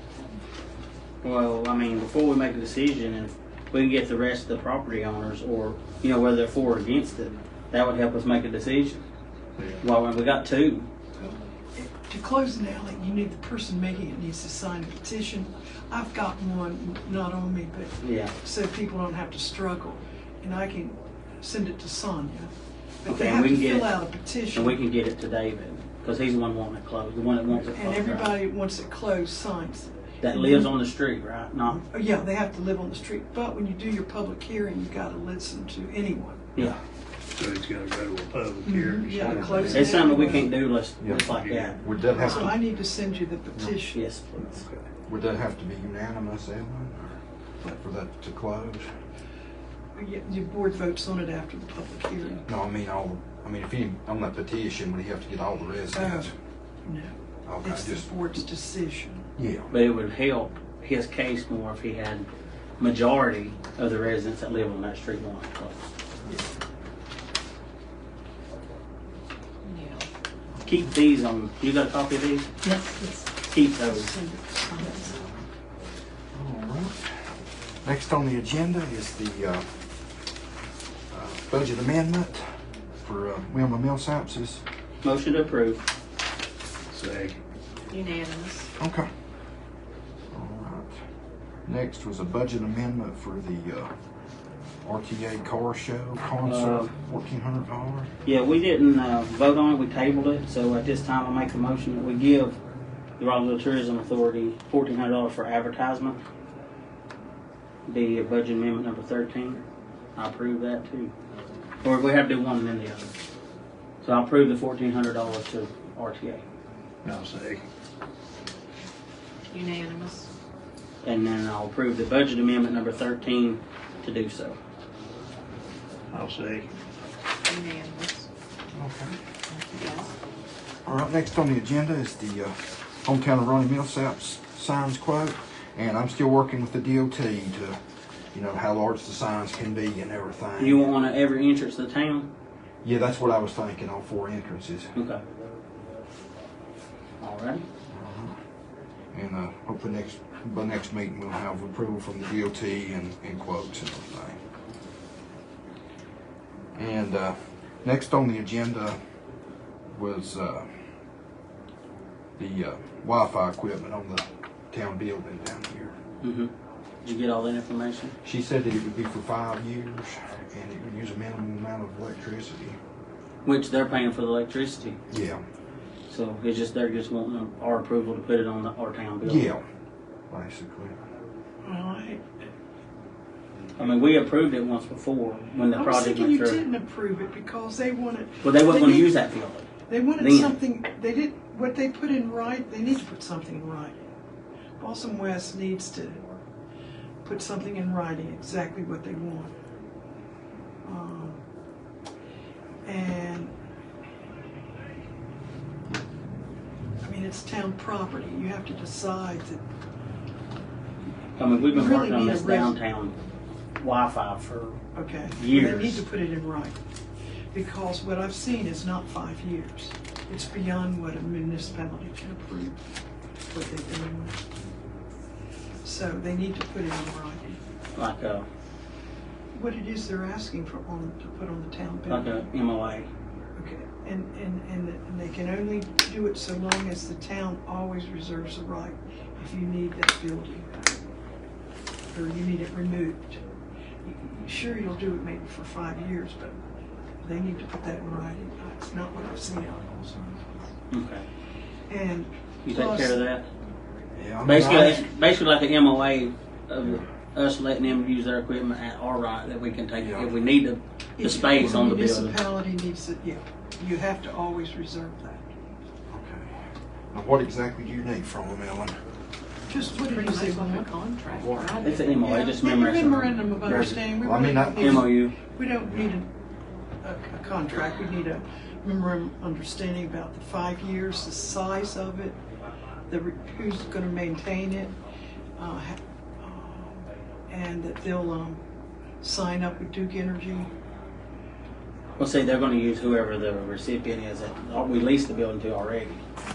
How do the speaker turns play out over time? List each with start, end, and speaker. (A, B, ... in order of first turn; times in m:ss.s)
0:01.2-0:09.0 A
0:09.8-0:10.9 A
0:11.2-0:22.5 B
0:18.0-0:18.3 A
0:23.0-0:24.8 B
0:23.0-0:23.9 A
0:24.5-0:28.4 A
0:27.5-0:30.7 B
0:30.2-0:31.8 A
0:31.9-0:36.5 B
0:37.3-0:40.0 C
0:38.6-0:40.5 B
0:39.3-0:41.8 A
0:41.0-0:42.6 D
0:41.0-0:41.9 C
0:42.1-0:44.0 B
0:43.9-0:44.6 A
0:45.1-0:47.2 D
0:47.8-0:48.9 D
0:49.9-0:52.4 B
0:52.4-0:56.3 D
0:55.9-0:56.3 B
0:56.8-0:59.3 B
0:57.4-0:58.1 D
0:59.4-0:59.7 D
0:59.7-1:02.3 A
1:02.8-1:05.8 A
1:09.6-1:10.1 E
1:10.6-1:12.5 A
1:12.6-1:13.2 E
1:13.5-1:14.1 A
1:13.9-1:15.1 B
1:14.7-1:15.1 E
1:15.1-1:15.4 D
1:16.3-1:17.2 D
1:17.8-1:19.6 D
1:21.1-1:22.4 D
1:23.0-1:24.6 D
1:25.0-1:25.8 A
1:26.9-1:27.4 C
1:27.9-1:28.7 E
1:28.8-1:29.1 D
1:30.3-1:30.9 D
1:31.7-1:33.9 D
1:34.8-1:38.1 D
1:36.4-1:36.9 A
1:38.2-1:42.6 A
1:43.2-1:46.2 A
1:47.9-1:49.6 A
1:50.2-1:51.1 A
1:51.8-1:53.1 A
1:54.0-1:56.4 A
1:57.0-1:57.6 C
1:59.5-2:00.3 E
2:01.0-2:04.6 A
2:06.1-2:06.7 C
2:07.4-2:08.3 E
2:08.7-2:10.0 D
2:09.7-2:10.1 E
2:10.8-2:17.8 D
2:18.3-2:20.9 D
2:20.6-2:22.3 A
2:22.8-2:24.9 D
2:24.9-2:25.2 A
2:27.2-2:27.6 A
2:27.9-2:28.3 D
2:29.1-2:34.4 D
2:36.7-2:39.0 D
2:39.9-2:40.7 D
2:42.4-2:45.9 D
2:46.2-2:46.5 A
2:47.0-2:48.1 A
2:48.2-2:52.8 D
2:53.4-2:55.0 A
2:55.1-2:55.4 D
2:56.1-2:59.5 A
2:59.2-2:59.6 D
3:00.3-3:01.0 D
3:01.6-3:02.2 B
3:03.8-3:06.6 A
3:05.7-3:09.1 B
3:08.4-3:10.6 A
3:09.9-3:14.0 B
3:14.8-3:16.2 B
3:17.2-3:19.5 B
3:20.8-3:21.4 B
3:22.8-3:23.5 B
3:27.0-3:29.6 B
3:31.4-3:33.1 A
3:31.7-3:32.8 B
3:33.8-3:34.8 A
3:34.9-3:36.8 B
3:35.4-3:36.0 A
3:37.5-3:42.8 B
3:43.5-3:44.4 B
3:45.8-3:47.6 B
3:48.0-3:48.4 A
3:49.5-3:52.5 B
3:52.1-3:53.1 A
3:53.6-4:01.0 B
4:02.1-4:03.4 B
4:04.0-4:06.6 B
4:07.2-4:10.5 B
4:10.9-4:11.2 A
4:11.9-4:13.2 B
4:12.6-4:13.5 A
4:14.1-4:15.0 D
4:14.4-4:22.4 A
4:19.9-4:20.3 D
4:21.2-4:25.5 B
4:26.1-4:26.6 D
4:27.1-4:29.0 D
4:29.7-4:31.0 B
4:29.9-4:32.3 E
4:31.8-4:34.0 A
4:32.2-4:36.3 B
4:33.6-4:35.1 D
4:34.8-4:35.3 A
4:37.0-4:42.4 B
4:43.1-4:44.9 B
4:45.6-4:48.6 B
4:49.2-4:50.7 B
4:52.2-4:56.2 A